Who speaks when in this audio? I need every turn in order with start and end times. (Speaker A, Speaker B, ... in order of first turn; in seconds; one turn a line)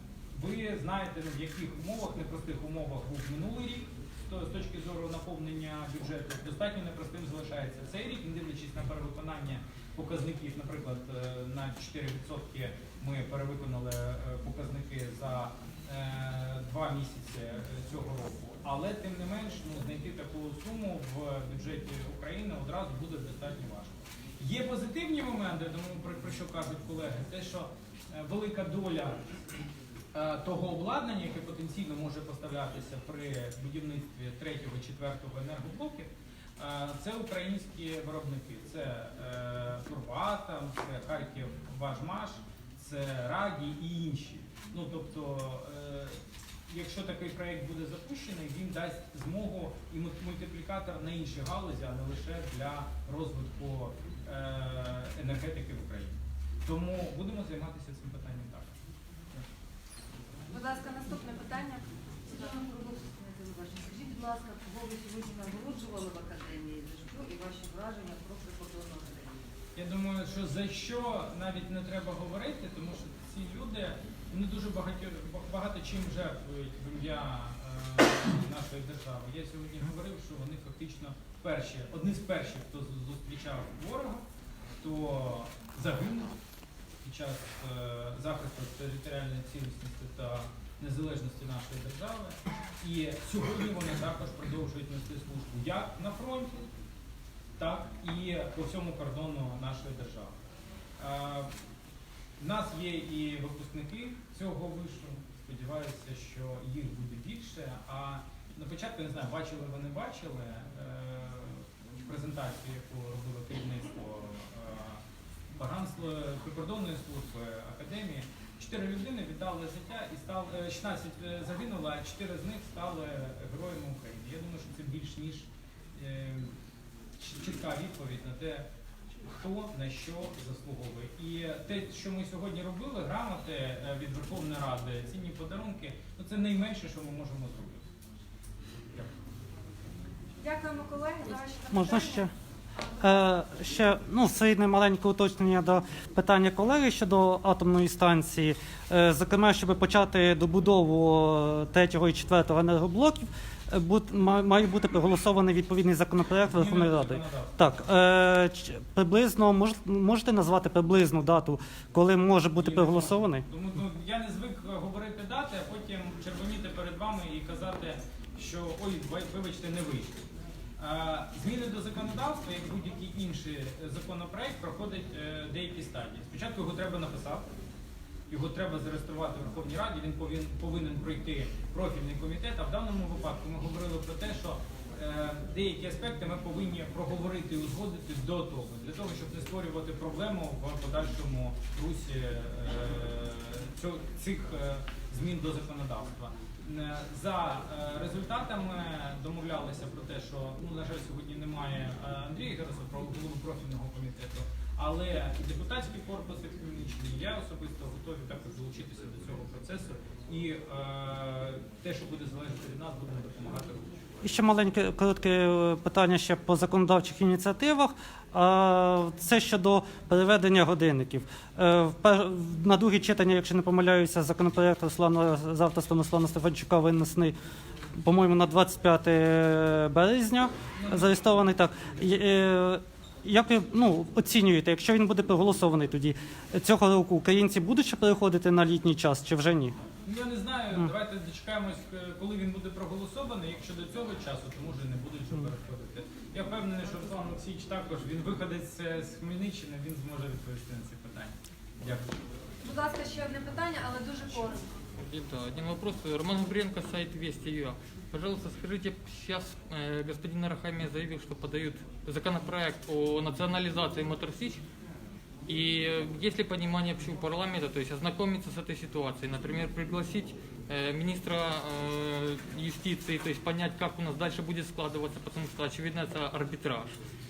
Speaker A: 0.3-29.2
Speaker A: 30.1-58.8
Speaker B: 60.5-61.8
Speaker C: 62.3-69.4
Speaker A: 69.8-84.2
Speaker A: 84.8-86.3
Speaker A: 87.0-96.7
Speaker A: 97.6-100.3
Speaker A: 101.0-101.5
Speaker A: 102.4-126.5
Speaker A: 127.2-128.7
Speaker A: 129.3-137.8
Speaker B: 140.4-143.0
Speaker D: 141.7-142.3
Speaker D: 143.0-163.4
Speaker A: 156.5-157.6
Speaker A: 162.6-170.1
Speaker A: 170.8-177.5
Speaker A: 178.3-214.0
Speaker D: 214.2-227.3
Speaker D: 228.0-239.8
Speaker A: 230.8-231.1
Speaker A: 240.0-252.1
Speaker B: 252.6-254.7
Speaker E: 255.0-264.6
Speaker E: 265.5-276.9